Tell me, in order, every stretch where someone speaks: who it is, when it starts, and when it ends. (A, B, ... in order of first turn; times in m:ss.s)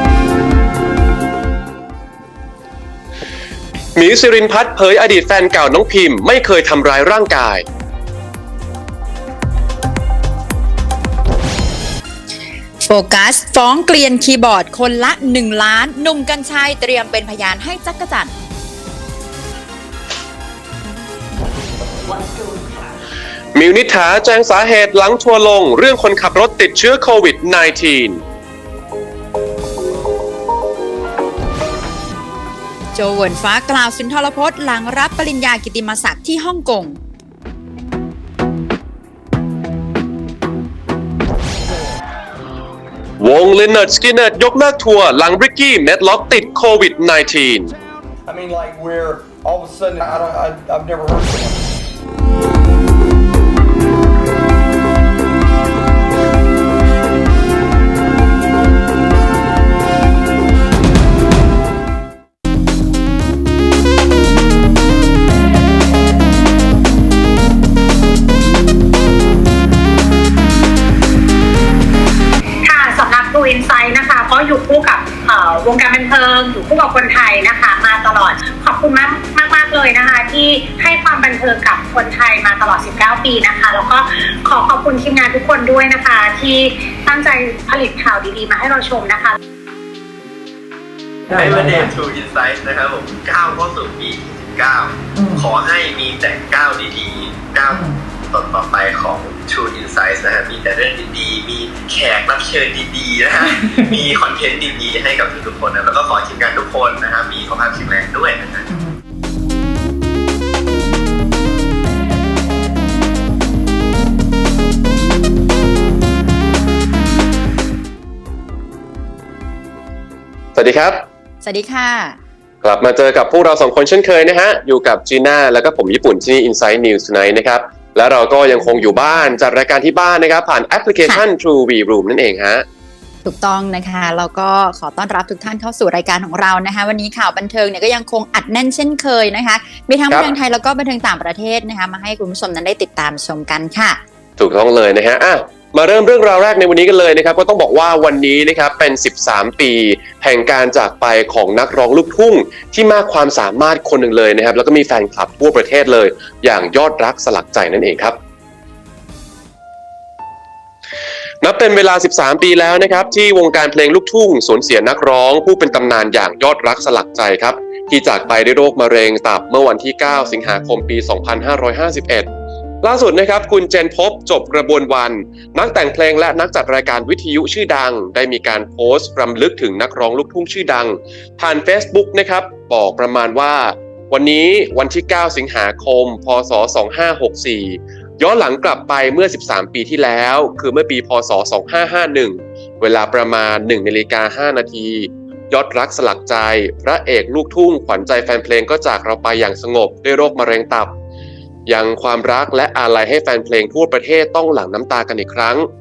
0:04.0-0:07.6 A
0:12.8-0:18.3 B
0:23.5-0:28.2 A
0:32.9-0:37.0 B
0:43.2-0:47.7 A
0:48.2-0:51.6 C
1:12.6-1:29.4 D
1:31.3-1:48.7 E
2:00.5-2:01.0 A
2:01.4-2:02.2 B
2:02.6-2:12.6 A
2:13.2-2:24.0 B
2:24.4-2:38.2 A
2:41.4-2:52.3 A
2:52.8-3:20.9 A
3:21.7-3:25.7 A